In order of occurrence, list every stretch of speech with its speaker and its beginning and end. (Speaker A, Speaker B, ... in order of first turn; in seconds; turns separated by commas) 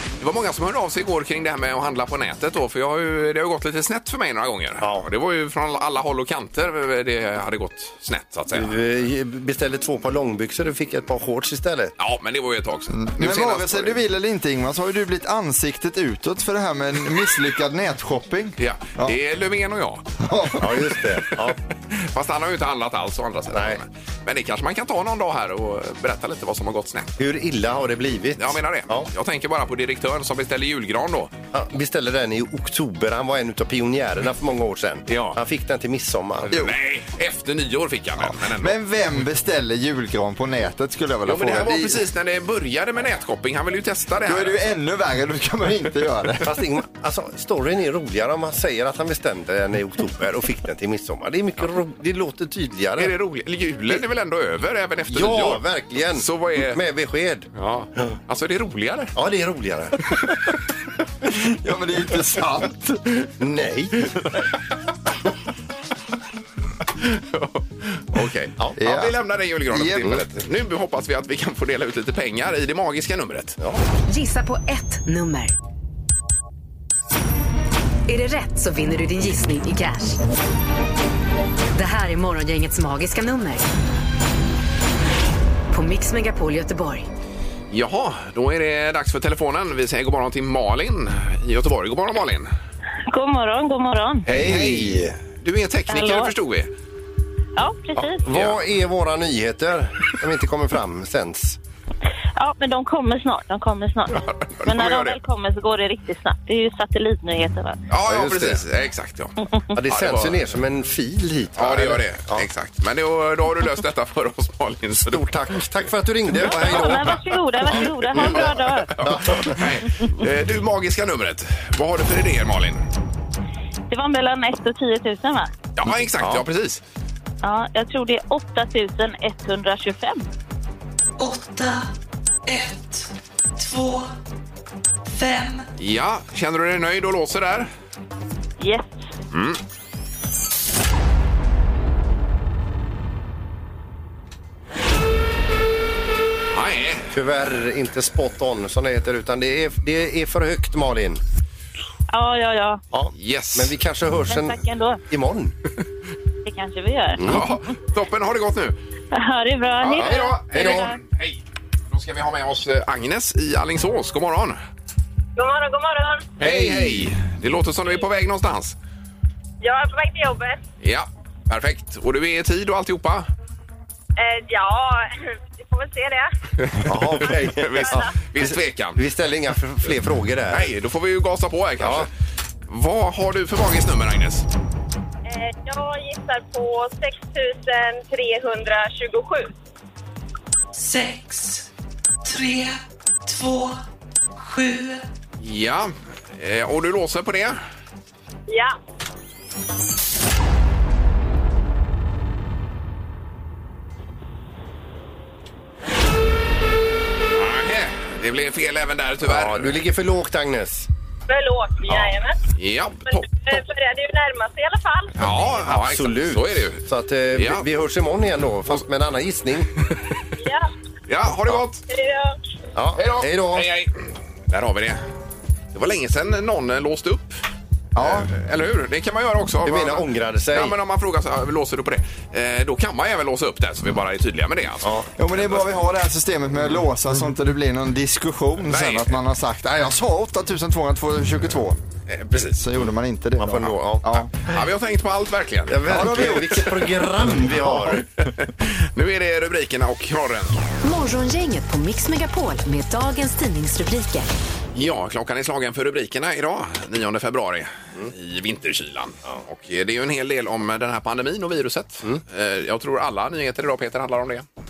Speaker A: 0.2-8.8, Speaker B: 4.8-5.1, Speaker B: 8.5-11.9, Speaker A: 12.0-14.0, Speaker C: 12.9-19.2, Speaker A: 18.6-20.1, Speaker C: 20.2-20.8, Speaker B: 20.6-21.6, Speaker A: 21.9-27.2, Speaker B: 23.5-23.8, Speaker B: 27.2-29.1, Speaker A: 28.4-31.3, Speaker B: 31.5-36.5, Speaker A: 35.1-35.4, Speaker A: 36.5-38.7, Speaker C: 38.4-42.0, Speaker A: 41.2-44.6, Speaker C: 44.2-46.6, Speaker B: 46.4-53.1, Speaker A: 53.0-56.8, Speaker B: 55.1-57.5, Speaker A: 57.5-59.1, Speaker B: 59.1-60.1, Speaker C: 61.2-63.0, Speaker B: 63.4-64.3, Speaker A: 67.0-73.6, Speaker C: 68.8-69.2, Speaker C: 69.7-70.1, Speaker D: 74.1-75.5, Speaker D: 78.1-80.2, Speaker D: 81.7-83.7, Speaker D: 85.7-87.1, Speaker A: 87.7-92.5, Speaker E: 93.1-94.3, Speaker A: 94.2-96.7, Speaker B: 94.3-95.2, Speaker E: 95.9-96.3, Speaker E: 97.6-98.2, Speaker B: 98.0-101.6, Speaker A: 98.3-98.6, Speaker E: 102.4-107.8, Speaker A: 104.1-105.2, Speaker A: 107.9-109.3, Speaker B: 108.0-108.6, Speaker B: 109.7-112.5, Speaker A: 109.9-110.3, Speaker A: 111.6-115.2, Speaker B: 115.1-119.6, Speaker E: 116.3-119.0, Speaker A: 116.6-117.0, Speaker A: 118.2-122.8, Speaker E: 123.9-125.5, Speaker A: 125.8-126.8, Speaker B: 126.2-126.4, Speaker E: 127.4-130.3, Speaker F: 131.2-131.9, Speaker F: 132.4-134.1, Speaker F: 135.1-135.7, Speaker A: 135.8-137.7, Speaker E: 138.6-139.1, Speaker A: 139.3-139.6, Speaker A: 146.5-147.1, Speaker B: 147.1-151.2, Speaker E: 152.1-152.8, Speaker B: 152.9-155.5, Speaker A: 153.1-153.7, Speaker E: 154.3-155.0, Speaker E: 156.4-157.6, Speaker B: 157.2-157.4, Speaker A: 157.2-158.7, Speaker E: 159.1-160.9, Speaker A: 159.8-164.6, Speaker B: 159.9-160.9, Speaker G: 165.3-166.3, Speaker A: 166.4-168.8, Speaker B: 166.4-167.0, Speaker G: 169.6-170.6, Speaker A: 170.8-173.3, Speaker G: 174.2-176.3, Speaker A: 176.6-179.0, Speaker B: 176.8-180.7, Speaker A: 180.5-182.1, Speaker B: 181.8-182.1, Speaker A: 182.7-184.4, Speaker G: 185.2-189.5, Speaker F: 190.7-191.7, Speaker F: 192.2-193.8, Speaker F: 194.4-195.1, Speaker A: 195.4-197.6, Speaker G: 198.5-198.7, Speaker A: 207.3-209.8, Speaker B: 209.2-210.9, Speaker G: 211.3-212.3, Speaker A: 211.9-213.6, Speaker G: 213.1-215.2, Speaker A: 215.2-217.7, Speaker B: 215.3-219.7, Speaker G: 220.4-220.7, Speaker A: 221.1-221.8, Speaker G: 221.9-222.3, Speaker B: 222.7-223.7, Speaker A: 222.9-225.0, Speaker A: 225.7-227.4, Speaker C: 227.9-228.3, Speaker A: 228.0-235.6, Speaker B: 229.7-230.8, Speaker C: 235.2-241.8, Speaker A: 238.7-239.2, Speaker A: 242.1-242.6, Speaker C: 242.6-244.3, Speaker B: 243.4-244.1, Speaker A: 244.2-246.4, Speaker B: 245.7-248.0, Speaker C: 245.9-246.8, Speaker A: 247.8-250.6, Speaker D: 250.8-254.3, Speaker A: 254.7-264.4